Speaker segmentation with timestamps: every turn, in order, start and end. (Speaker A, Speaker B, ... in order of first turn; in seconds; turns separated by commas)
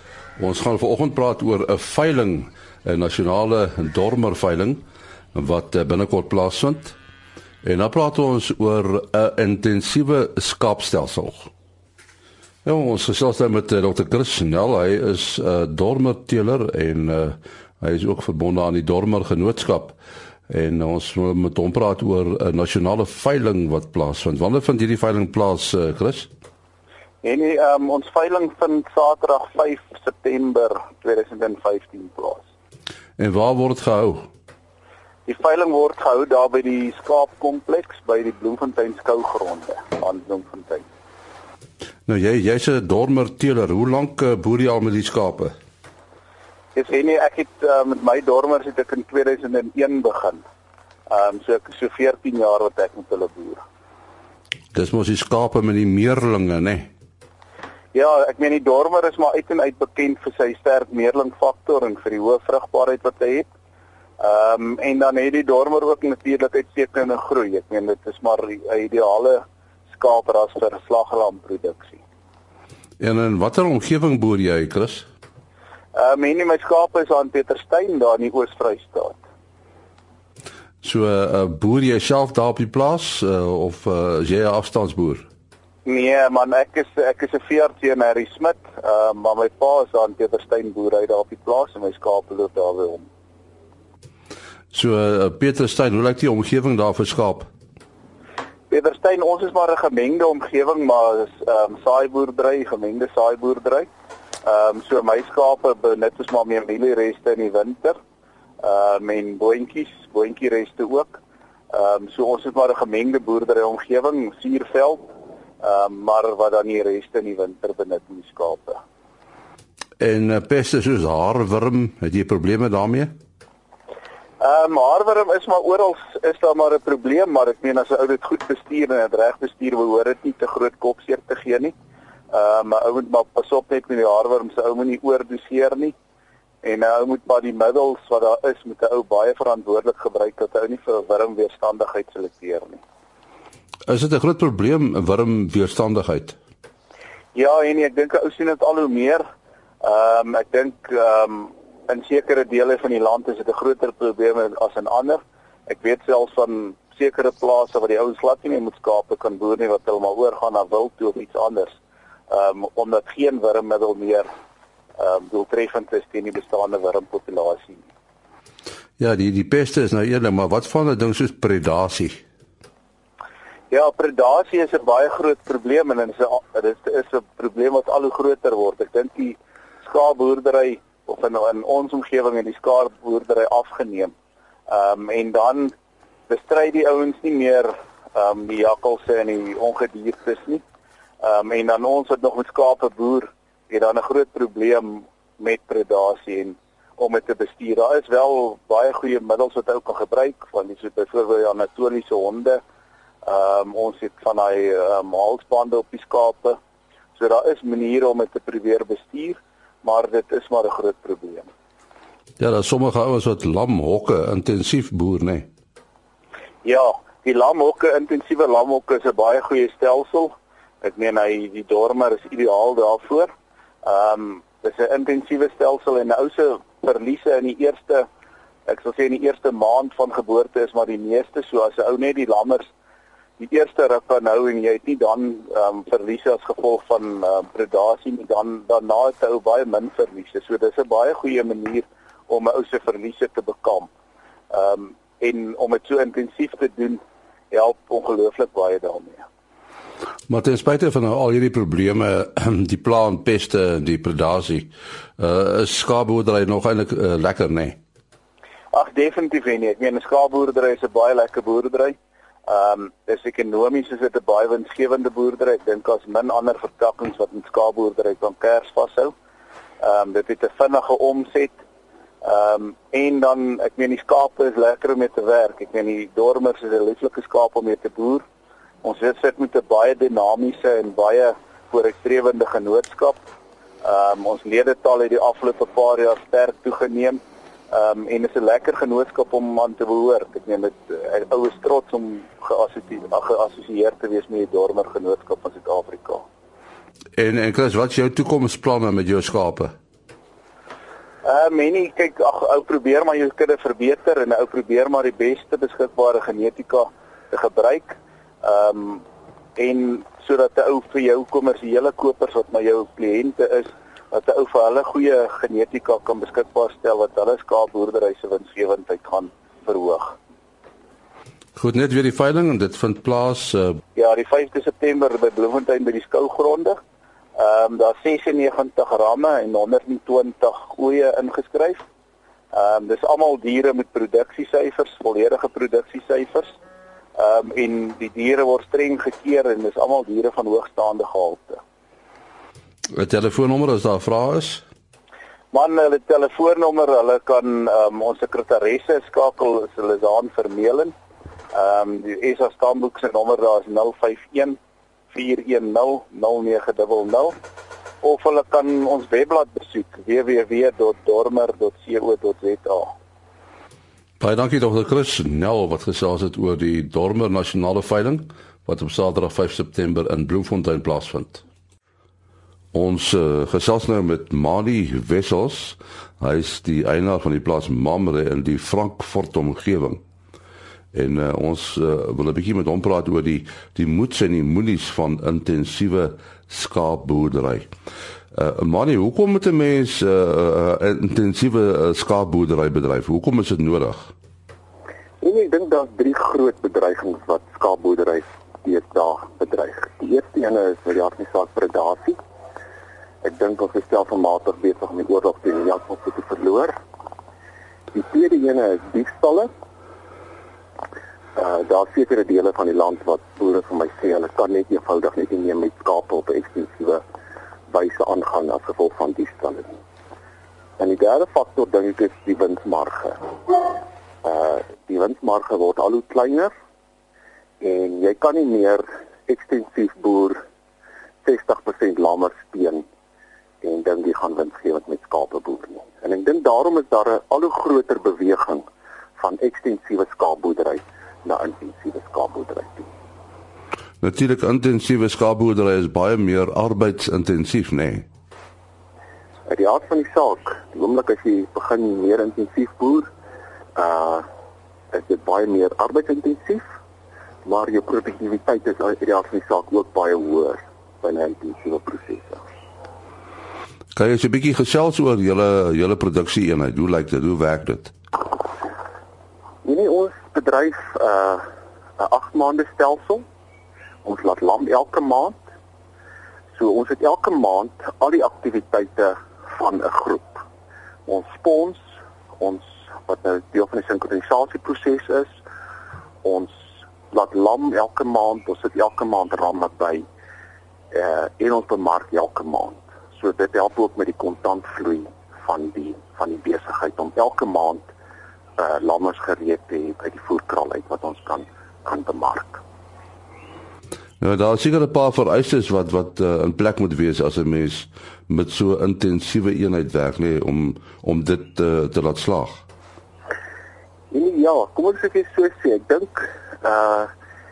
Speaker A: 0.4-7.0, Speaker A: 7.6-11.5, Speaker A: 12.7-20.0, Speaker A: 20.5-26.3, Speaker B: 27.2-32.5, Speaker A: 33.2-34.2, Speaker B: 35.3-40.9, Speaker A: 42.1-45.5, Speaker B: 46.7-50.4, Speaker B: 51.1-53.6, Speaker A: 54.7-56.9, Speaker B: 57.9-63.5, Speaker B: 64.2-72.0, Speaker A: 73.0-75.1, Speaker B: 75.9-79.2, Speaker A: 80.8-85.2, Speaker B: 85.8-93.1, Speaker A: 94.7-97.5, Speaker B: 98.7-103.9, Speaker B: 104.4-108.0, Speaker B: 108.6-111.2, Speaker B: 111.7-115.1, Speaker B: 115.6-118.8, Speaker A: 120.0-123.1, Speaker B: 124.4-131.7, Speaker B: 132.3-136.0, Speaker B: 136.6-142.8, Speaker A: 143.9-146.4, Speaker B: 147.3-149.2, Speaker B: 149.8-161.8, Speaker B: 162.3-164.3, Speaker B: 165.0-167.8, Speaker A: 169.0-172.2, Speaker B: 173.7-184.1, Speaker B: 184.7-185.7, Speaker B: 186.3-190.6, Speaker B: 191.2-202.6, Speaker B: 203.2-206.6, Speaker B: 207.2-211.5, Speaker A: 212.4-215.5, Speaker B: 216.6-223.3, Speaker B: 223.8-228.1, Speaker B: 228.7-232.7, Speaker B: 233.4-243.9, Speaker B: 244.5-249.2, Speaker A: 250.3-257.8, Speaker B: 258.7-261.9, Speaker B: 262.5-269.1, Speaker B: 269.8-271.6, Speaker B: 272.2-278.2, Speaker B: 278.8-283.2, Speaker B: 283.8-287.2, Speaker B: 287.7-296.2, Speaker A: 297.2-299.7, Speaker B: 301.2-309.0, Speaker B: 309.6-320.1, Speaker A: 321.6-323.8, Speaker B: 323.9-326.8, Speaker B: 327.4-331.9, Speaker B: 332.5-336.6, Speaker B: 337.2-341.6, Speaker A: 343.0-344.6, Speaker B: 345.5-350.9, Speaker B: 351.5-354.6, Speaker B: 355.1-357.4, Speaker B: 358.0-362.9, Speaker A: 364.2-371.4, Speaker A: 372.7-380.0, Speaker A: 380.9-387.7, Speaker A: 388.3-394.1, Speaker C: 395.2-402.2, Speaker C: 403.2-406.7, Speaker C: 407.9-409.5, Speaker C: 411.4-417.0, Speaker C: 417.7-419.8, Speaker C: 420.8-423.2, Speaker C: 424.2-426.5, Speaker C: 427.6-430.4, Speaker C: 431.2-432.9, Speaker C: 433.6-438.6, Speaker C: 439.2-442.9, Speaker A: 444.0-448.1, Speaker C: 449.5-453.1, Speaker C: 453.8-454.2, Speaker C: 454.9-456.6, Speaker C: 457.4-462.4, Speaker A: 464.0-467.9, Speaker C: 469.6-471.4, Speaker C: 472.0-473.2, Speaker C: 474.0-475.4, Speaker C: 476.6-480.4, Speaker C: 481.1-481.8, Speaker C: 482.4-485.4, Speaker C: 486.2-486.5, Speaker C: 487.1-490.1, Speaker C: 490.9-497.9, Speaker C: 498.6-502.6, Speaker A: 504.2-512.6, Speaker C: 514.1-517.1